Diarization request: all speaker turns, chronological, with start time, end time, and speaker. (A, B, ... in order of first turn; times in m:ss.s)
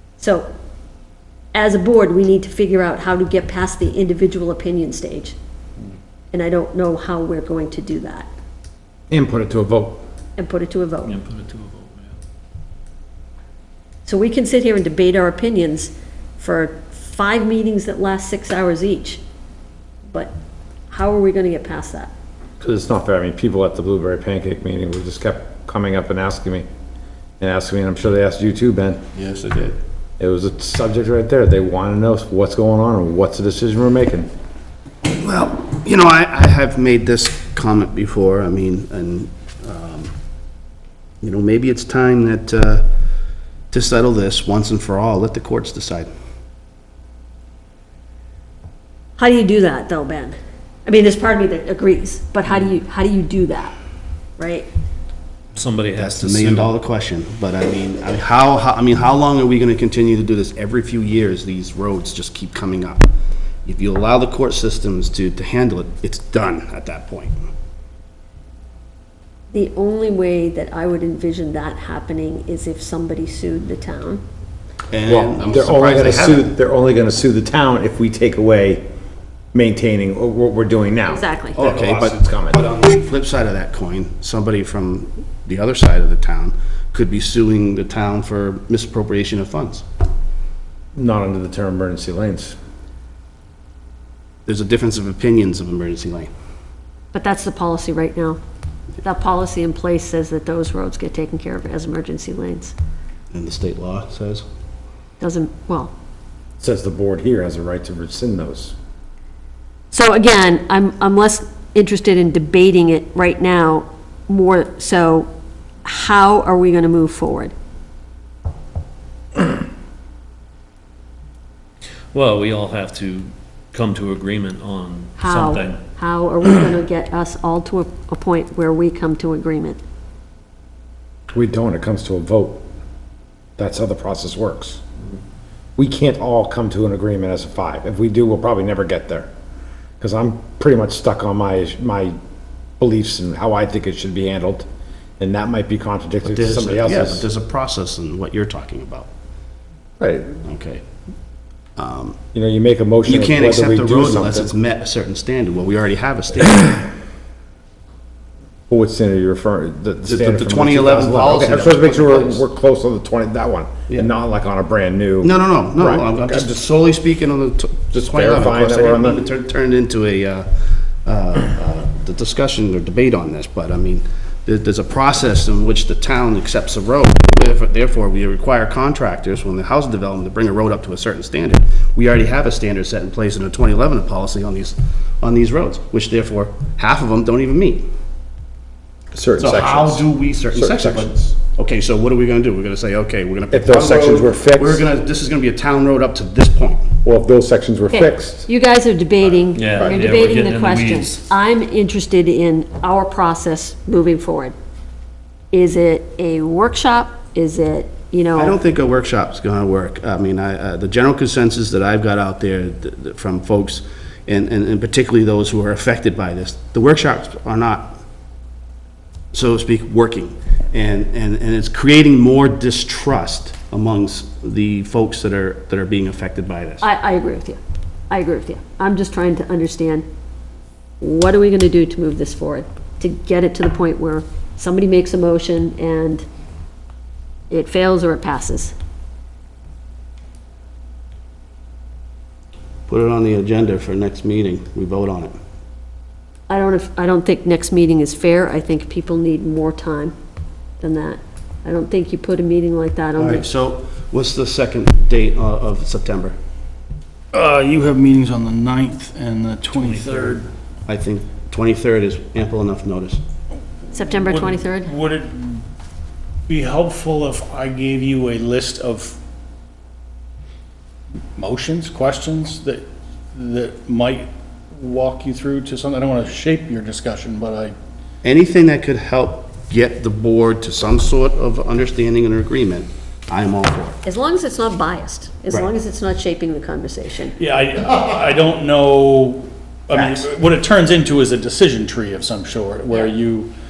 0:00.2-0:00.4 A
0:01.5-0:05.4 A
0:06.3-0:08.3 A
0:09.1-0:10.0 B
0:10.4-0:11.2 A
0:11.1-0:12.1 C
0:14.0-0:19.2 A
0:20.9-0:22.1 A
0:22.6-0:26.6 B
0:27.4-0:29.0 B
0:29.1-0:29.8 D
0:30.2-0:34.3 B
0:35.2-0:40.1 D
0:41.2-0:42.8 D
0:43.7-0:46.1 D
0:49.2-0:53.8 A
0:54.4-0:54.7 A
0:55.5-0:56.7 C
0:56.0-1:03.1 D
1:03.6-1:07.4 D
1:09.5-1:14.2 A
1:14.9-1:16.4 D
1:15.1-1:18.8 B
1:19.5-1:22.6 B
1:21.1-1:21.6 A
1:21.5-1:29.8 D
1:30.9-1:32.6 B
1:34.4-1:36.3 D
1:37.1-1:38.4 A
1:39.0-1:42.7 A
1:43.3-1:44.4 D
1:45.2-1:45.9 A
1:46.6-1:48.7 B
1:49.9-1:55.3 A
1:55.8-1:57.5 A
2:02.1-2:05.8 C
2:05.2-2:09.8 A
2:11.3-2:12.6 B
2:13.6-2:14.8 B
2:15.8-2:19.3 B
2:20.0-2:22.2 B
2:22.8-2:24.6 B
2:25.2-2:27.2 B
2:26.2-2:29.1 D
2:30.0-2:30.4 B
2:30.4-2:30.8 D
2:31.8-2:32.2 D
2:32.3-2:34.5 B
2:33.0-2:36.9 D
2:38.7-2:46.5 B
2:40.0-2:42.4 D
2:45.2-2:50.5 D
2:47.9-2:49.2 B
2:51.0-3:07.8 D
3:09.1-3:11.1 B
3:09.4-3:16.9 D
3:13.5-3:14.8 B
3:17.0-3:18.5 B
3:17.9-3:24.5 A
3:19.5-3:21.2 C
3:25.5-3:28.6 A
3:28.3-3:38.0 D
3:39.3-3:46.8 D
3:46.8-3:47.6 A
3:48.1-3:50.0 A
3:51.0-3:56.2 A
3:57.5-3:58.7 A
4:02.9-4:05.3 D
4:06.5-4:10.1 A
4:10.8-4:13.4 A
4:13.2-4:16.4 D
4:17.3-4:20.5 E
4:19.8-4:20.3 C
4:20.9-4:23.2 D
4:23.9-4:24.9 A
4:24.2-4:25.6 E
4:26.5-4:29.2 E
4:31.4-4:32.8 E
4:33.3-4:37.7 E
4:38.2-4:44.0 D
4:44.0-4:47.3 A
4:47.4-4:53.5 E